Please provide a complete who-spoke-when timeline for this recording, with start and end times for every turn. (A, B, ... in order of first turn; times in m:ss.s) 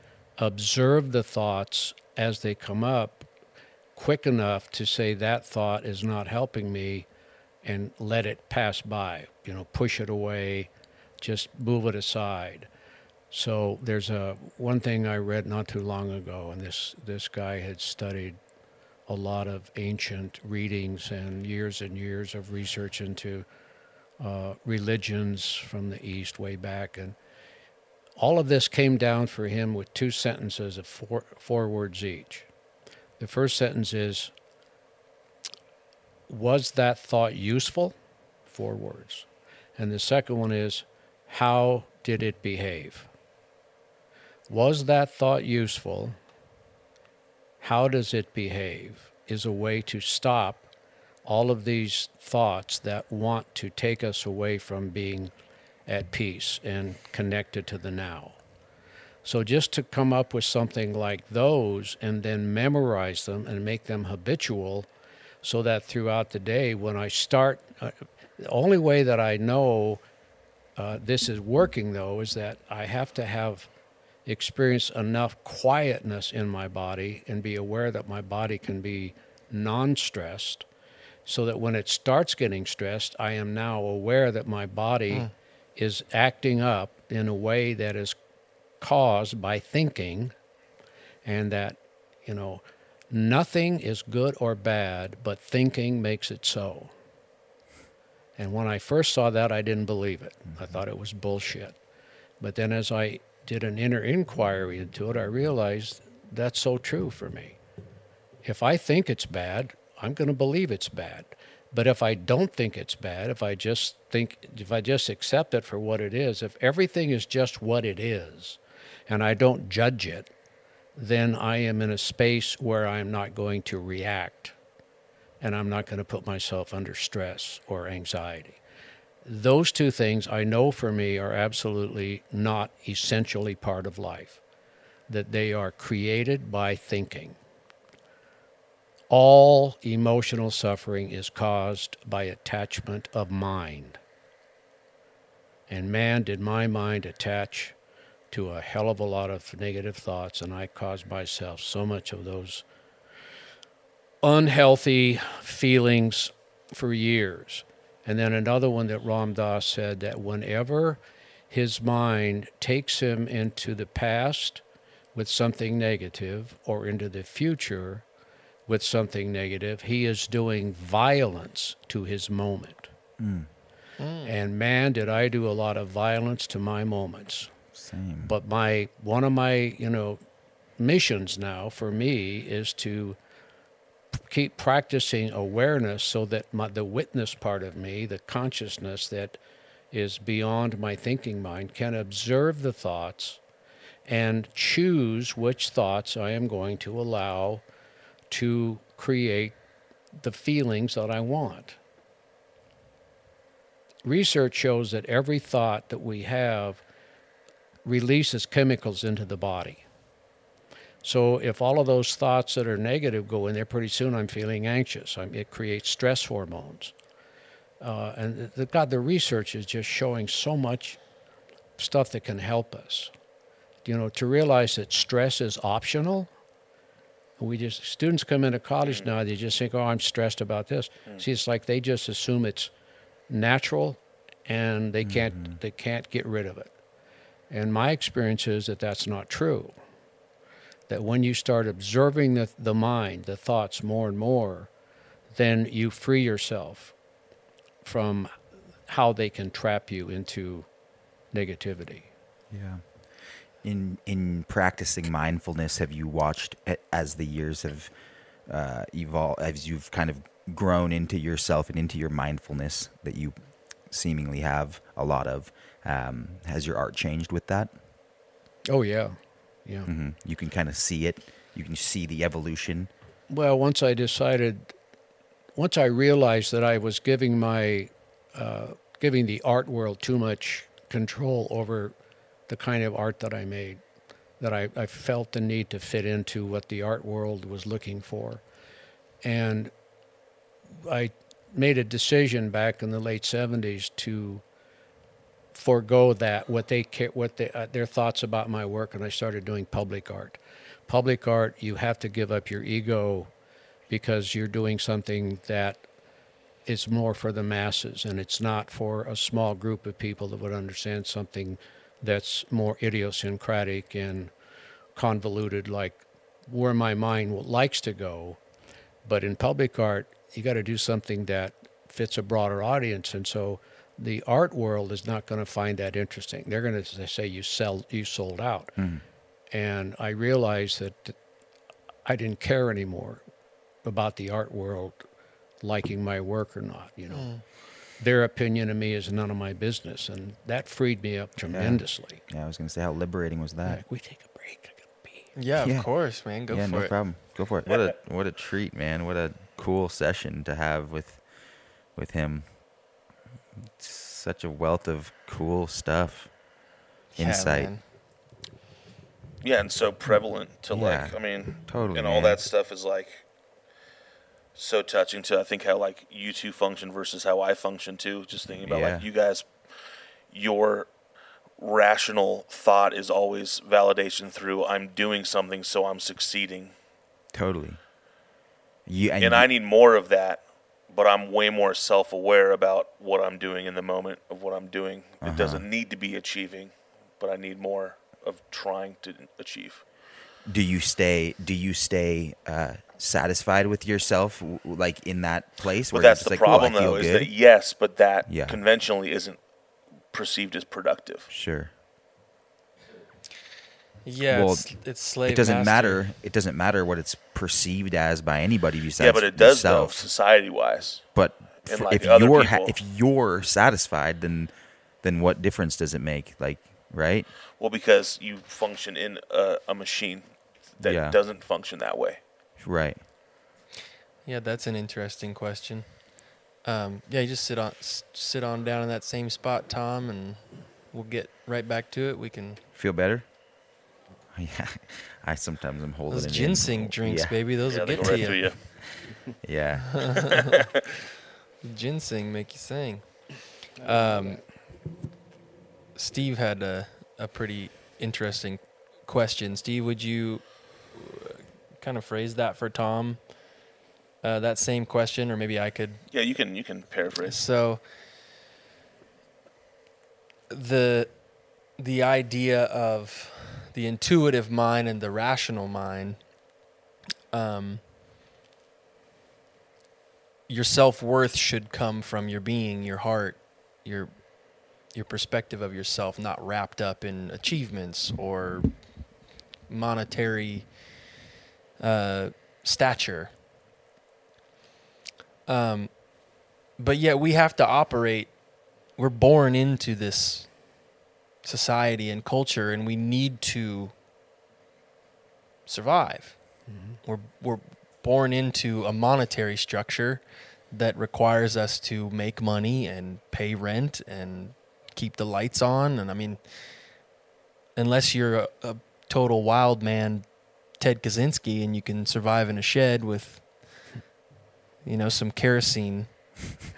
0:00.4-0:03.3 A
0:04.0-0:07.1 A
0:07.6-0:10.7 A
0:11.2-0:12.7 A
0:13.3-0:18.4 A
0:19.1-0:23.5 A
0:24.2-0:27.2 A
0:28.2-0:32.5 A
0:33.2-0:34.3 A
0:36.3-0:38.0 A
0:38.5-0:43.1 A
0:44.5-0:46.2 A
0:47.6-0:50.7 A
0:51.2-0:55.3 A
0:55.9-0:58.4 A
0:59.2-1:04.9 A
1:05.4-1:10.0 A
1:10.8-1:13.7 A
1:14.2-1:20.7 A
1:21.2-1:28.2 A
1:28.8-1:30.3 A
1:31.2-1:36.9 A
1:38.4-1:41.8 A
1:42.4-1:47.6 A
1:48.4-2:00.3 A
2:01.0-2:04.6 A
2:05.4-2:08.6 A
2:09.2-2:14.4 A
2:15.1-2:17.4 A
2:19.1-2:24.0 A
2:25.7-2:27.8 A
2:28.3-2:32.6 A
2:34.2-2:44.6 A
2:45.1-2:48.0 A
2:48.7-2:52.9 A
2:53.2-2:53.5 B
2:54.0-2:54.3 C
2:54.2-2:57.5 A
2:57.8-2:58.3 B
2:58.2-3:00.2 A
3:00.8-3:03.2 A
3:04.1-3:09.4 A
3:09.9-3:13.4 A
3:14.1-3:17.6 A
3:18.3-3:19.6 A
3:20.2-3:21.8 A
3:24.0-3:26.8 A
3:27.8-3:29.8 A
3:31.0-3:36.9 A
3:37.8-3:41.0 A
3:41.8-3:43.1 A
3:43.8-3:46.3 A
3:47.4-3:52.7 A
3:53.3-3:56.7 A
3:55.0-3:55.6 B
3:57.5-3:59.7 A
4:00.9-4:04.7 A
4:05.3-4:06.9 A
4:07.8-4:08.4 A
4:08.9-4:10.7 A
4:11.3-4:12.1 A
4:12.5-4:12.8 B
4:13.6-4:17.9 B
4:18.5-4:23.3 B
4:23.9-4:27.7 B
4:28.6-4:29.9 A
4:29.9-4:32.9 B
4:33.3-4:34.7 A
4:35.6-4:42.0 A
4:42.5-4:43.8 A
4:44.4-4:48.4 A
4:49.2-4:49.7 A
4:50.8-4:54.4 A
4:55.5-5:03.3 A
5:03.9-5:05.8 A
5:06.7-5:14.3 A
5:15.0-5:18.4 A
5:19.0-5:28.7 A
5:28.8-5:29.0 B
5:29.5-5:31.2 A
5:32.0-5:33.2 A
5:33.8-5:35.0 A
5:35.6-5:37.4 A
5:37.1-5:37.4 C
5:38.0-5:42.2 A
5:41.5-5:43.8 B
5:43.6-5:45.3 A
5:45.4-5:47.0 C
5:45.6-5:45.9 B
5:46.5-5:51.2 B
5:51.9-5:52.6 B
5:53.8-5:56.3 B
5:57.1-5:57.8 C
5:57.2-5:57.7 B
5:59.4-6:03.2 D
6:00.7-6:02.5 B
6:04.6-6:09.7 D
6:08.6-6:09.1 B
6:10.3-6:10.9 D
6:11.6-6:16.7 D
6:17.3-6:17.8 B
6:18.9-6:19.5 B
6:19.2-6:29.8 D
6:25.2-6:25.6 B
6:30.5-6:37.3 B
6:35.9-6:39.4 D
6:38.3-6:38.6 B
6:40.1-6:41.3 D
6:41.3-6:41.7 B
6:44.0-6:46.1 C
6:44.3-6:50.0 B
6:49.0-6:51.0 D
6:51.2-6:54.5 B
6:51.6-6:52.8 D
6:55.0-6:57.3 B
6:57.6-7:02.2 D
7:00.8-7:01.2 B
7:02.6-7:03.0 B
7:04.2-7:12.6 C
7:12.8-7:13.3 B
7:14.3-7:20.4 B
7:16.1-7:18.4 C
7:17.7-7:18.6 D
7:20.0-7:20.4 C
7:21.6-7:24.5 C
7:23.8-7:24.4 A
7:26.0-7:33.5 C
7:34.2-7:36.1 C
7:36.1-7:37.4 D
7:37.2-7:37.8 C
7:40.5-7:46.3 C
7:47.3-7:47.8 C
7:50.5-8:01.0 C
8:01.8-8:03.3 C
8:05.5-8:10.7 C
8:11.4-8:13.9 C
8:15.7-8:26.4 C
8:16.7-8:17.0 A
8:27.8-8:33.9 C
8:34.8-8:36.2 C